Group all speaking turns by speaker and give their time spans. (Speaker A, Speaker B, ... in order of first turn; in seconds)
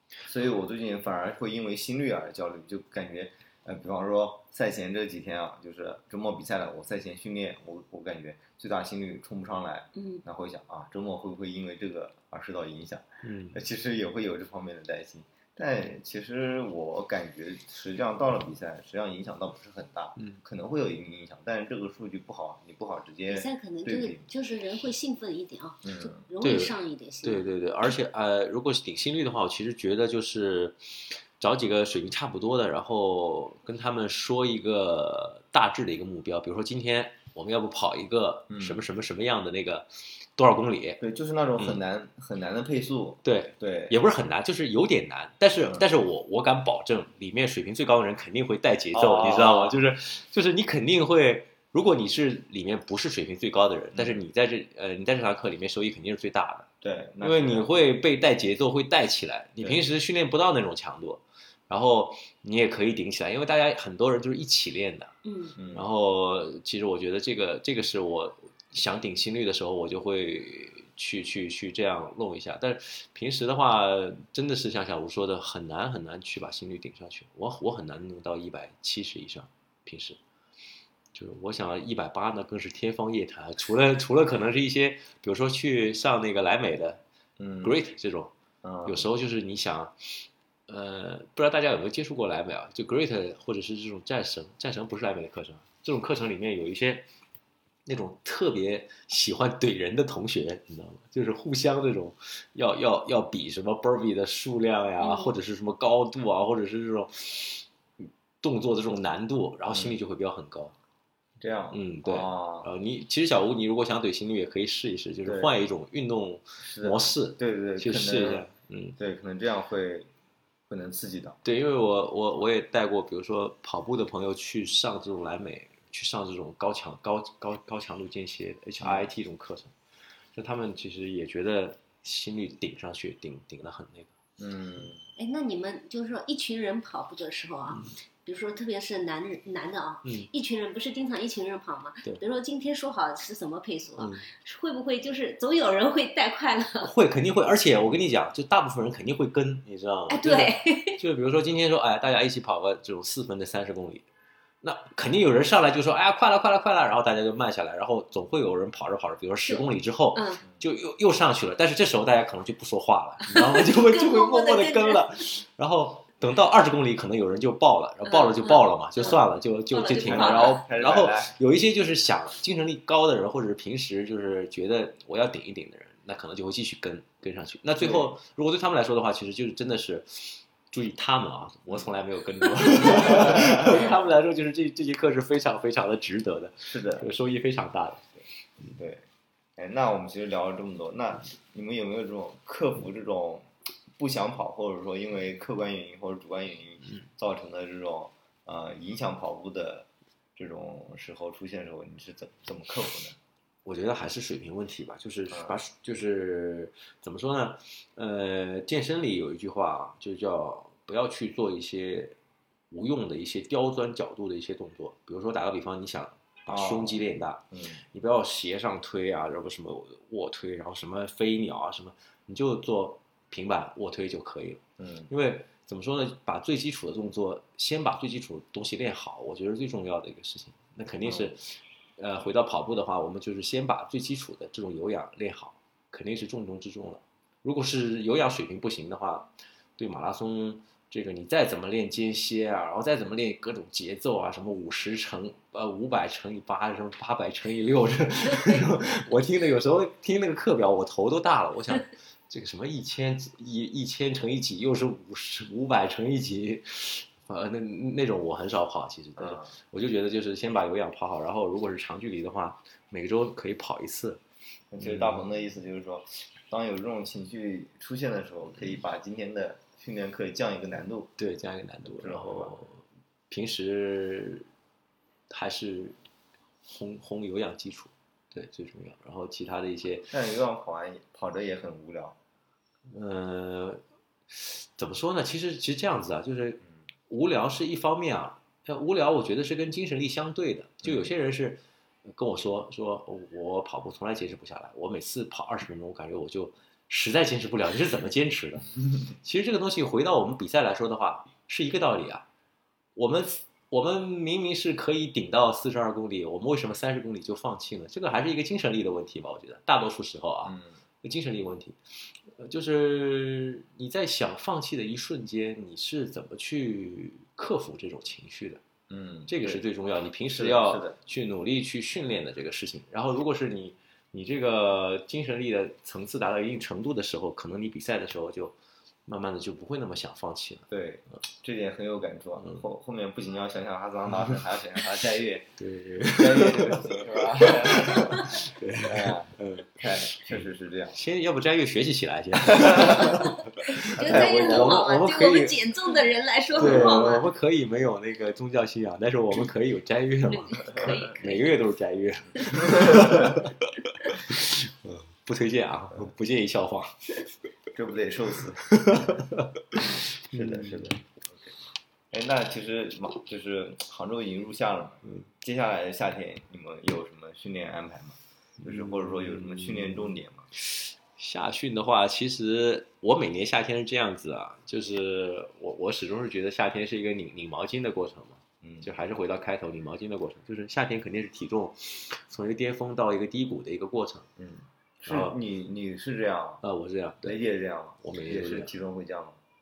Speaker A: 0.2-24.3, 25.8-26.2, 38.5-38.8, 41.0-44.0, 48.9-49.8, 53.9-54.2, 56.8-57.7, 65.6-65.9, 87.4-87.8, 88.6-89.1, 109.7-110.0, 111.4-112.7, 115.2-115.6, 116.6-120.1, 120.7-121.4, 128.8-129.1, 134.4-135.0, 170.0-171.3, 177.8-178.1, 182.9-183.9, 186.7-187.1, 188.7-189.0, 189.6-203.2, 205.3-205.6, 216.5-217.8, 224.8-225.1, 231.0-231.3, 259.2-259.6, 264.7-271.1, 271.9-272.6, 280.1-282.2, 290.8-291.1, 310.4-310.8, 318.9-319.6, 320.3-321.0, 330.7-335.5, 336.0-338.3, 338.8-341.0, 342.5-343.1, 343.9-344.8, 346.6-347.1, 352.6-353.4, 357.7-359.2, 360.3-361.5, 362.1-370.5, 378.6-378.9, 384.4-386.6, 387.2-389.4
Speaker B: 9.9-10.2, 23.3-27.5, 65.2-65.5, 105.0-105.3, 135.2-146.9, 150.1-151.0, 159.4-160.4, 163.2-165.1, 168.0-170.6, 342.9-347.3, 350.2-351.5
Speaker C: 13.2-13.6, 26.4-41.0, 43.2-56.7, 57.2-65.1, 65.7-80.2, 81.1-87.0, 87.6-88.3, 88.8-97.0, 97.8-110.7, 111.7-119.0, 121.4-129.7, 130.3-134.1, 144.0-144.2, 146.8-154.0, 154.6-188.1, 203.6-212.2, 212.7-264.2, 264.8-265.2, 271.2-274.5, 275.3-276.0, 276.6-280.1, 282.9-302.2, 302.9-318.6, 319.3-328.5, 329.1-330.7, 335.6-345.6, 346.5-356.9, 358.6-360.9, 368.6-384.3, 385.1-385.4, 386.6-387.4, 388.0-388.7